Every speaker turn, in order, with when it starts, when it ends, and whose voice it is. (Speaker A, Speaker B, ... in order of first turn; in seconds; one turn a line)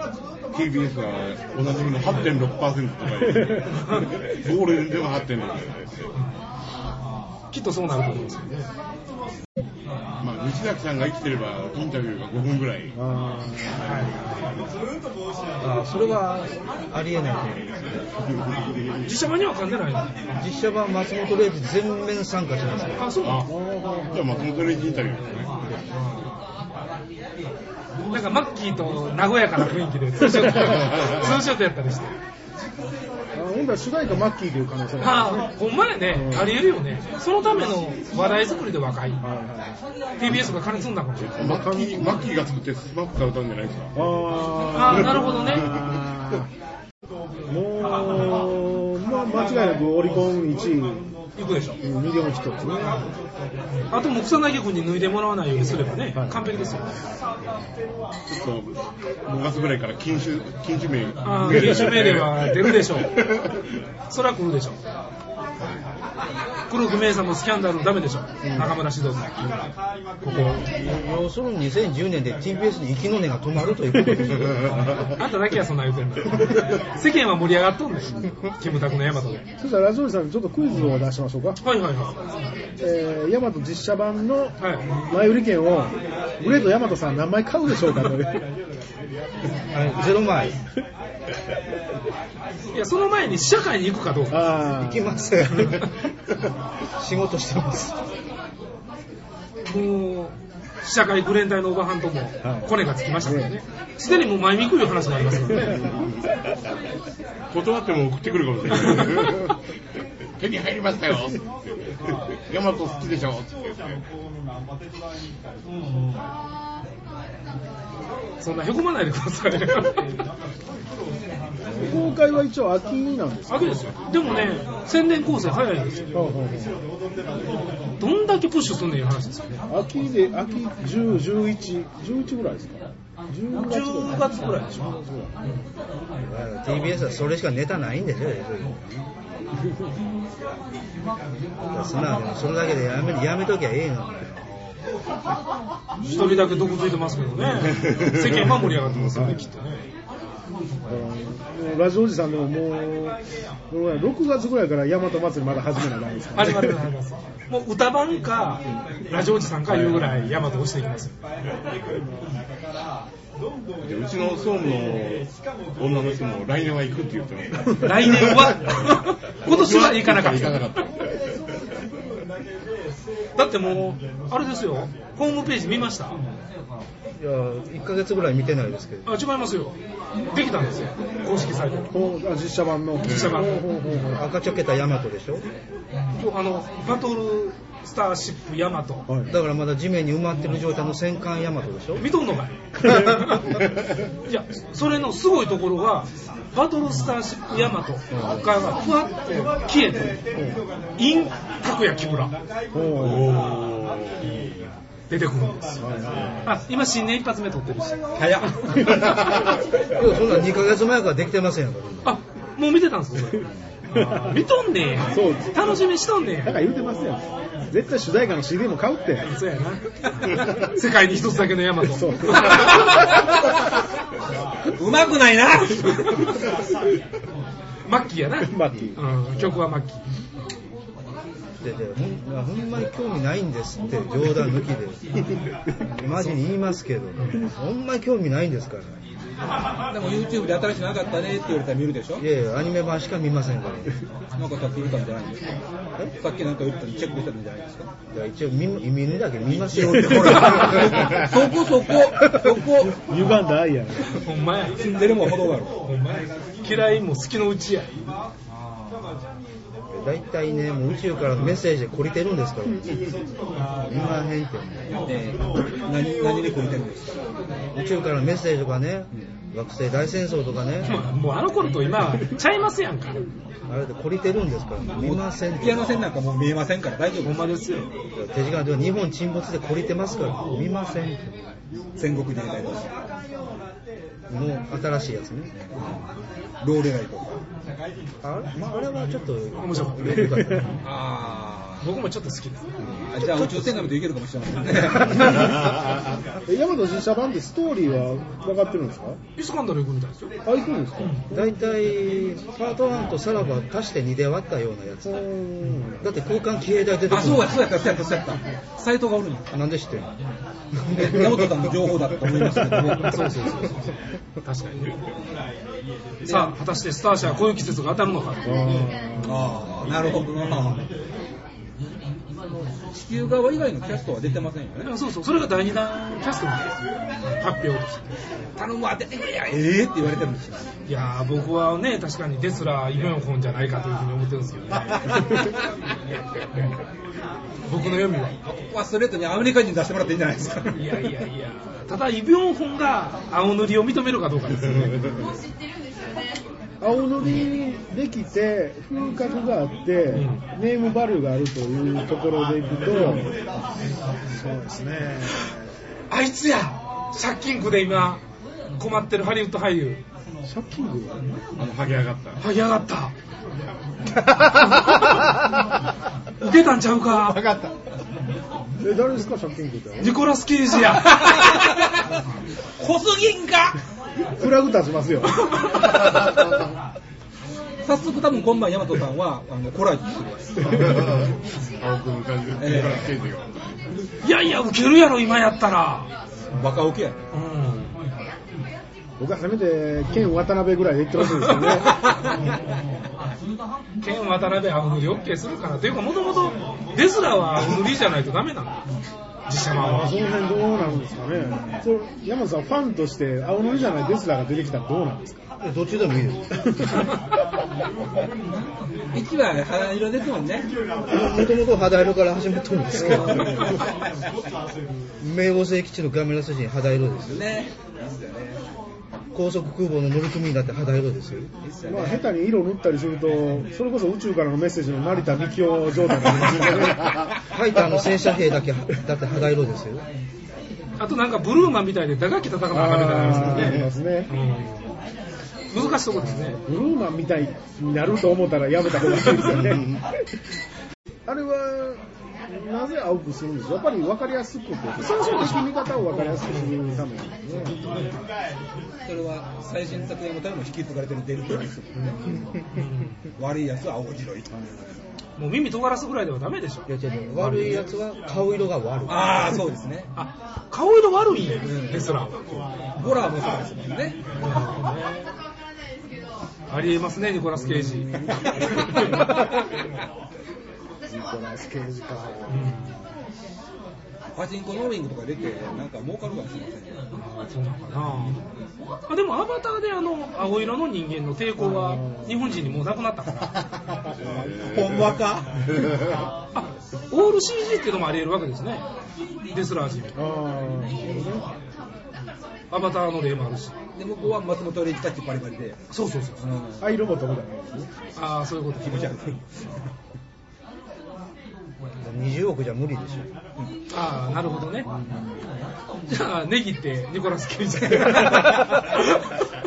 Speaker A: 0.5-6.0
Speaker B: 3.3-3.8
Speaker C: 3.8-4.1
Speaker C: 7.5-8.7
Speaker A: 10.2-12.9
Speaker B: 12.9-14.1
Speaker C: 13.8-14.5
Speaker D: 15.6-18.1
Speaker A: 18.7-19.0
Speaker C: 19.0-20.1
Speaker D: 20.3-23.1
Speaker C: 22.9-23.5
Speaker A: 23.2-23.5
Speaker B: 23.4-25.1
Speaker A: 24.1-25.6
Speaker D: 25.4-26.1
Speaker C: 28.1-32.1
Speaker B: 33.3-35.5
Speaker C: 35.0-39.2
Speaker B: 36.1-36.5
Speaker B: 39.2-39.8
Speaker C: 40.2-41.4
Speaker A: 41.2-44.1
Speaker B: 41.3-42.3
Speaker B: 43.9-46.5
Speaker C: 44.7-45.7
Speaker A: 44.9-45.8
Speaker B: 47.5-51.1
Speaker C: 51.4-51.8
Speaker B: 51.8-53.0
Speaker C: 53.9-57.0
Speaker B: 56.1-56.7
Speaker A: 58.2-63.6
Speaker C: 61.2-63.2
Speaker C: 64.1-64.8
Speaker C: 66.7-69.6
Speaker C: 70.2-70.6
Speaker D: 70.3-74.8
Speaker A: 74.7-75.1
Speaker C: 75.2-79.5
Speaker B: 79.6-81.6
Speaker C: 81.6-82.2
Speaker B: 82.8-88.5
Speaker C: 84.6-84.9
Speaker D: 89.7-90.6
Speaker C: 92.7-94.4
Speaker B: 94.3-95.8
Speaker D: 94.7-95.9
Speaker D: 96.9-98.0
Speaker C: 99.6-105.8
Speaker B: 102.4-103.6
Speaker A: 105.9-106.2
Speaker A: 107.5-109.6
Speaker A: 110.4-114.0
Speaker C: 118.4-120.1
Speaker B: 121.7-124.1
Speaker C: 123.5-126.1
Speaker B: 126.1-126.8
Speaker C: 128.0-129.6
Speaker B: 129.7-135.3
Speaker C: 133.6-135.0
Speaker D: 136.2-139.1
Speaker D: 141.6-144.8
Speaker C: 146.0-149.8
Speaker B: 146.0-146.7
Speaker A: 147.8-148.2
Speaker B: 150.9-153.2
Speaker B: 153.7-156.8
Speaker C: 156.3-161.2
Speaker A: 163.8-168.3
Speaker C: 167.8-170.7
Speaker A: 169.4-170.9
Speaker C: 173.3-176.2
Speaker D: 177.2-179.2
Speaker C: 179.0-179.8
Speaker C: 180.3-181.9
Speaker B: 181.9-184.2
Speaker C: 183.0-183.8
Speaker A: 183.0-183.4
Speaker D: 184.0-185.5
Speaker C: 186.2-189.1
Speaker B: 189.1-189.3
Speaker D: 189.3-192.0
Speaker C: 192.0-193.6
Speaker C: 194.2-200.2
Speaker D: 198.1-198.6
Speaker C: 201.0-202.3
Speaker B: 202.7-203.4
Speaker A: 202.9-204.7
Speaker C: 205.1-205.9
Speaker B: 205.8-206.6
Speaker C: 206.4-208.0
Speaker E: 208.2-208.9
Speaker B: 208.7-209.5
Speaker D: 209.9-212.2
Speaker C: 212.0-216.7
Speaker B: 213.9-214.4
Speaker B: 215.0-215.7
Speaker B: 216.4-219.3
Speaker C: 219.3-222.8
Speaker B: 221.8-222.9
Speaker E: 224.7-226.3
Speaker C: 227.8-230.0
Speaker B: 228.5-229.0
Speaker D: 231.6-235.0
Speaker D: 235.8-239.0
Speaker E: 239.9-242.2
Speaker D: 242.2-243.9
Speaker E: 244.3-247.9
Speaker D: 248.1-251.2
Speaker E: 249.4-253.0
Speaker B: 252.8-254.2
Speaker C: 254.0-254.9
Speaker E: 254.8-255.8
Speaker C: 255.8-257.9
Speaker D: 259.9-262.9
Speaker D: 263.9-265.0
Speaker E: 265.0-267.6
Speaker D: 267.7-271.0
Speaker C: 270.8-273.3
Speaker D: 273.7-276.1
Speaker E: 274.9-277.5
Speaker C: 277.2-277.9
Speaker D: 278.1-281.5
Speaker E: 282.0-282.9
Speaker D: 284.3-285.5
Speaker E: 285.6-286.0
Speaker E: 286.6-287.4
Speaker D: 288.2-290.9
Speaker C: 289.6-290.3
Speaker B: 290.1-290.7
Speaker E: 290.8-291.8
Speaker C: 291.8-292.7
Speaker D: 292.9-294.1
Speaker E: 293.1-295.5
Speaker B: 296.4-299.2
Speaker C: 299.4-300.4
Speaker B: 300.4-301.6
Speaker C: 301.0-301.2
Speaker D: 301.3-305.3
Speaker B: 305.0-306.1
Speaker D: 306.0-307.8
Speaker E: 307.1-309.6
Speaker D: 309.5-310.1
Speaker D: 310.9-311.8
Speaker E: 310.9-313.3
Speaker C: 313.0-314.9
Speaker E: 316.2-316.6
Speaker C: 316.2-318.9
Speaker B: 318.4-319.6
Speaker E: 319.2-320.9
Speaker E: 322.9-324.9
Speaker C: 324.8-326.7
Speaker C: 327.2-328.1
Speaker E: 328.6-330.7
Speaker C: 330.9-335.4
Speaker C: 337.7-338.4
Speaker E: 338.4-340.9
Speaker C: 340.7-345.2
Speaker B: 346.8-353.3
Speaker C: 350.1-350.4
Speaker B: 354.3-355.5
Speaker C: 356.1-358.2
Speaker C: 358.8-360.0
Speaker B: 360.4-361.2
Speaker A: 361.6-362.4
Speaker C: 362.4-363.1
Speaker C: 366.4-367.4
Speaker B: 368.8-370.2
Speaker C: 370.0-371.6
Speaker E: 372.8-373.8
Speaker B: 374.4-375.4
Speaker C: 375.5-375.9
Speaker E: 377.8-380.8
Speaker A: 380.8-383.5
Speaker E: 382.6-383.1
Speaker C: 384.2-386.1
Speaker E: 386.5-387.2
Speaker C: 387.3-388.0
Speaker B: 389.2-392.2
Speaker C: 394.0-398.8
Speaker C: 399.5-400.2
Speaker B: 399.7-405.5
Speaker D: 405.6-407.1
Speaker E: 409.1-410.7
Speaker D: 411.1-413.7
Speaker E: 412.9-413.9
Speaker B: 413.1-413.8
Speaker D: 415.2-417.5
Speaker E: 417.2-418.6
Speaker D: 419.3-421.5
Speaker E: 421.6-422.2
Speaker B: 421.8-427.1
Speaker D: 427.5-430.1
Speaker C: 431.0-434.9
Speaker B: 432.7-434.3
Speaker C: 435.7-436.6
Speaker B: 435.7-440.1
Speaker A: 439.4-440.0
Speaker B: 441.2-447.9
Speaker C: 445.0-447.0
Speaker C: 447.5-448.2
Speaker E: 449.0-451.9
Speaker B: 451.9-452.6
Speaker C: 452.7-453.2
Speaker E: 453.4-454.5
Speaker B: 454.6-454.9
Speaker C: 455.4-456.9
Speaker D: 456.9-459.6
Speaker E: 457.4-457.8
Speaker E: 459.1-460.1
Speaker C: 460.1-462.5
Speaker E: 461.6-462.2
Speaker E: 462.9-464.2
Speaker C: 464.4-465.3
Speaker C: 466.7-469.0
Speaker B: 467.5-469.5
Speaker B: 471.1-472.9
Speaker C: 472.5-472.9
Speaker E: 474.3-477.0
Speaker C: 477.1-478.4
Speaker C: 479.1-483.5
Speaker B: 481.6-482.5
Speaker A: 484.3-485.1
Speaker E: 484.4-485.8
Speaker C: 486.5-488.8
Speaker C: 489.5-490.1
Speaker B: 490.1-491.5
Speaker C: 492.7-493.8
Speaker E: 493.9-495.8
Speaker C: 495.9-496.4
Speaker E: 496.4-497.0
Speaker B: 496.8-497.9
Speaker C: 498.1-499.1
Speaker E: 498.8-499.5
Speaker D: 502.0-503.3
Speaker C: 503.9-504.9
Speaker C: 506.1-509.0
Speaker E: 508.1-508.6